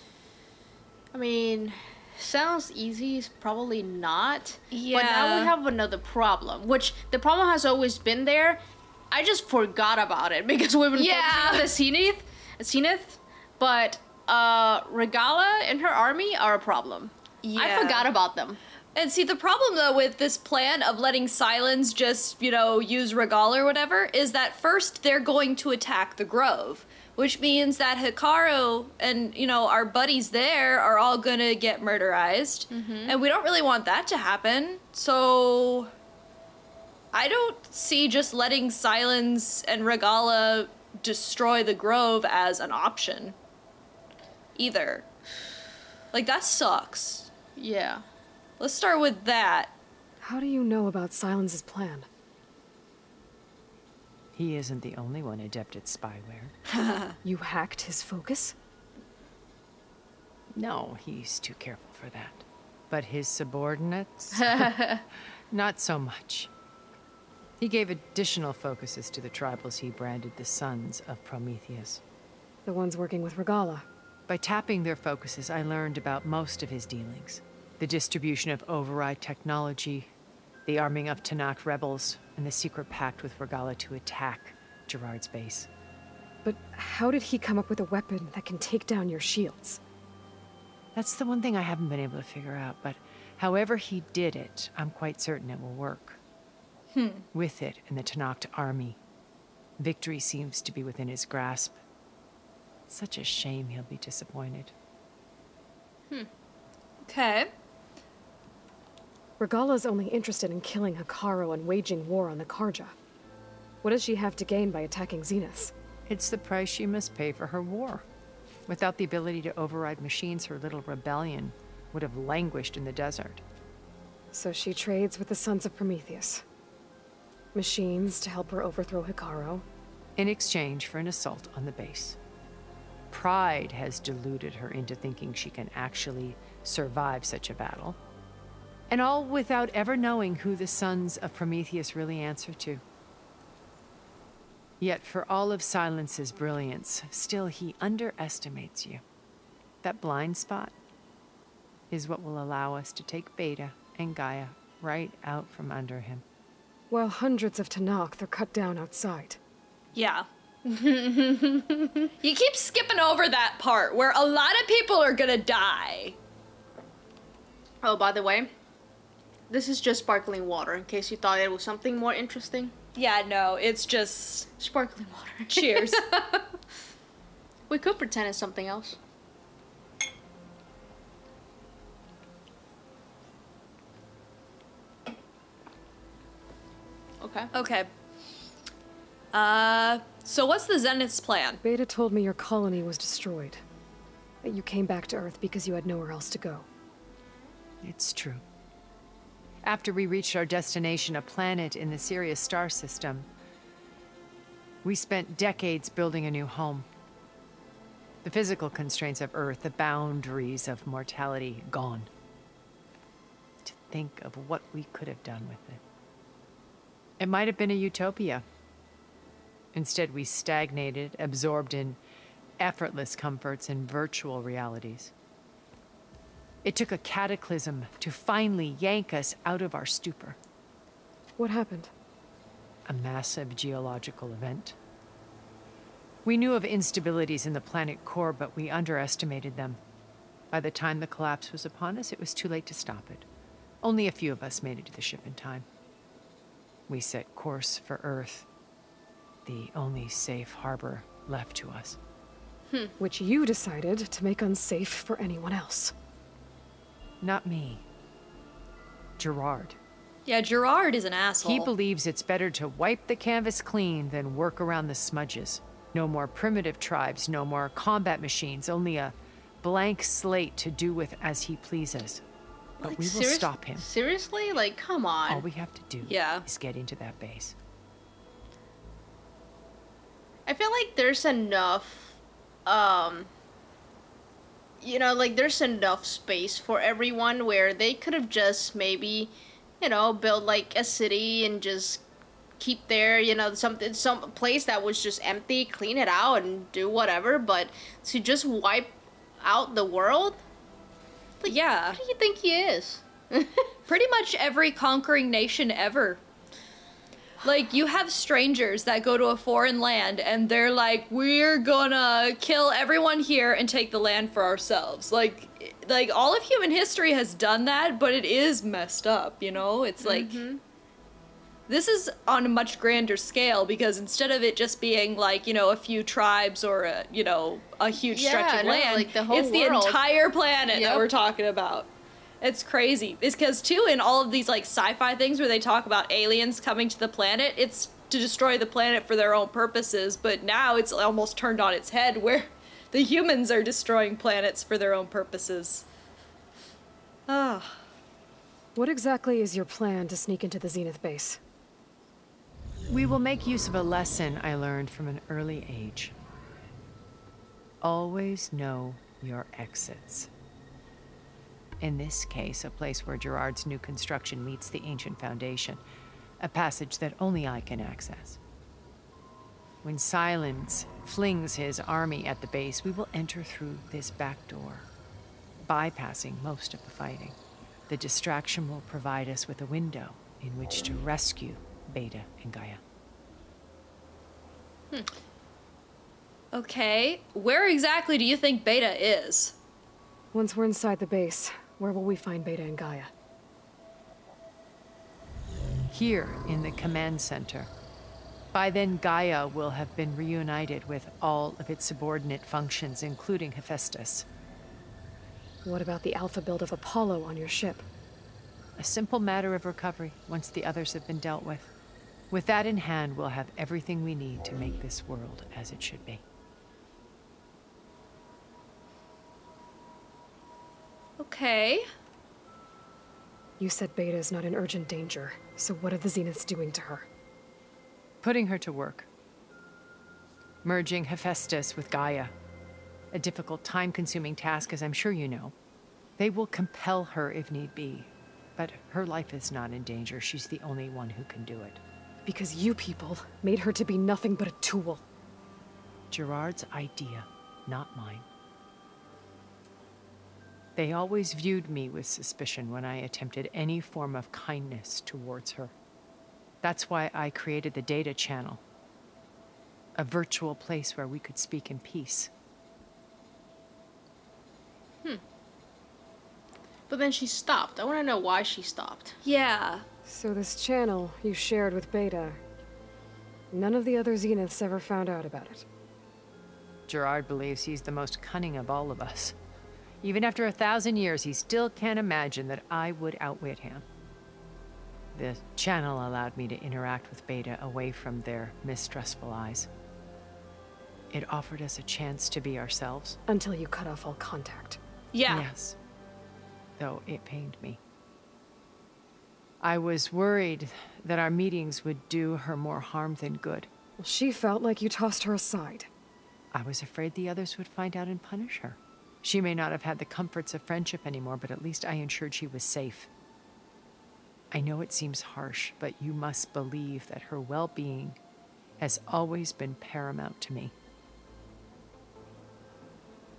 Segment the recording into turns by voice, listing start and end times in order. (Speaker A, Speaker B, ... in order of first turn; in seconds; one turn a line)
Speaker A: 1.1-18.6
Speaker B: 4.7-5.5
Speaker B: 10.9-11.7
Speaker B: 17.4-18.1
Speaker B: 18.9-35.9
Speaker A: 32.7-33.2
Speaker B: 37.1-43.3
Speaker B: 44.5-45.0
Speaker B: 46.1-47.3
Speaker A: 47.6-48.0
Speaker B: 48.6-49.7
Speaker C: 50.2-52.1
Speaker D: 54.3-56.5
Speaker B: 56.7-57.1
Speaker C: 57.2-58.5
Speaker D: 60.5-64.7
Speaker A: 64.3-65.0
Speaker D: 65.5-66.5
Speaker D: 67.6-72.0
Speaker C: 72.7-73.8
Speaker D: 74.3-80.1
Speaker D: 80.7-85.7
Speaker C: 86.4-89.8
Speaker D: 90.9-96.2
Speaker B: 96.9-97.2
Speaker D: 97.3-99.0
Speaker D: 99.8-101.8
Speaker D: 102.9-104.7
Speaker B: 107.0-107.5
Speaker C: 109.4-112.9
Speaker C: 113.8-115.7
Speaker D: 116.1-118.0
Speaker D: 118.7-123.4
Speaker C: 124.3-126.4
Speaker C: 127.5-129.7
Speaker D: 130.2-132.2
Speaker D: 133.1-138.0
Speaker D: 138.9-142.8
Speaker D: 144.8-149.0
Speaker D: 149.8-150.7
Speaker D: 151.9-156.2
Speaker C: 156.9-159.4
Speaker B: 159.9-160.3
Speaker A: 160.6-162.1
Speaker B: 162.2-166.2
Speaker A: 167.8-168.5
Speaker A: 169.5-172.7
Speaker B: 172.9-174.5
Speaker A: 174.6-176.4
Speaker B: 175.5-176.0
Speaker A: 177.7-179.0
Speaker A: 187.2-187.5
Speaker B: 187.5-187.9
Speaker B: 189.3-191.6
Speaker C: 191.6-193.6
Speaker C: 194.4-196.7
Speaker D: 197.8-198.4
Speaker D: 199.6-203.3
Speaker D: 204.8-206.9
Speaker D: 208.2-212.1
Speaker D: 213.6-215.8
Speaker D: 217.2-218.4
Speaker D: 219.7-222.0
Speaker D: 222.6-225.1
Speaker D: 226.6-230.4
Speaker C: 231.4-231.9
Speaker D: 232.8-234.8
Speaker D: 236.2-239.8
Speaker D: 240.5-243.2
Speaker D: 243.8-245.7
Speaker D: 246.9-248.5
Speaker D: 249.4-252.0
Speaker C: 253.0-255.9
Speaker D: 257.2-257.8
Speaker D: 259.2-259.8
Speaker B: 260.2-261.7
Speaker D: 261.4-272.2
Speaker A: 272.8-275.4
Speaker D: 272.8-273.9
Speaker D: 275.3-277.5
Speaker B: 276.0-276.4
Speaker A: 280.5-283.3
Speaker A: 284.8-292.0
Speaker A: 292.6-300.4
Speaker A: 301.4-303.7
Speaker B: 301.4-302.0
Speaker B: 303.9-306.2
Speaker B: 307.4-320.4
Speaker A: 320.0-320.6
Speaker B: 321.7-331.9
Speaker A: 328.1-330.0
Speaker A: 330.7-331.1
Speaker B: 332.4-345.8
Speaker B: 347.3-347.8
Speaker C: 348.8-351.4
Speaker D: 352.9-356.1
Speaker D: 357.8-360.3
Speaker D: 361.8-365.8
Speaker D: 366.4-368.4
Speaker D: 369.8-374.9
Speaker D: 375.6-377.4
Speaker D: 377.9-382.8
Speaker B: 386.5-389.5
Speaker C: 390.3-393.1
Speaker D: 395.9-397.7
Speaker D: 398.5-404.2
Speaker C: 405.6-407.9
Speaker D: 408.8-411.7
Speaker D: 412.3-416.2
Speaker B: 421.2-421.9
Speaker C: 423.6-427.1
Speaker D: 428.2-429.1
Speaker D: 430.6-432.3
Speaker D: 433.1-435.5
Speaker D: 436.2-441.8
Speaker C: 442.2-445.0
Speaker D: 446.1-448.2
Speaker D: 450.8-455.7
Speaker D: 456.6-458.6
Speaker D: 459.9-462.3
Speaker A: 466.9-469.1
Speaker B: 469.2-469.8
Speaker C: 470.1-472.4
Speaker C: 473.5-475.6
Speaker D: 476.9-479.4
Speaker D: 480.0-483.9
Speaker D: 485.1-489.7
Speaker D: 491.1-493.2
Speaker C: 493.3-494.8
Speaker B: 495.1-495.5
Speaker D: 495.3-495.8
Speaker D: 496.8-497.8
Speaker D: 499.6-503.7
Speaker C: 504.0-505.9
Speaker D: 506.5-513.1
Speaker D: 514.5-518.2
Speaker D: 518.8-520.7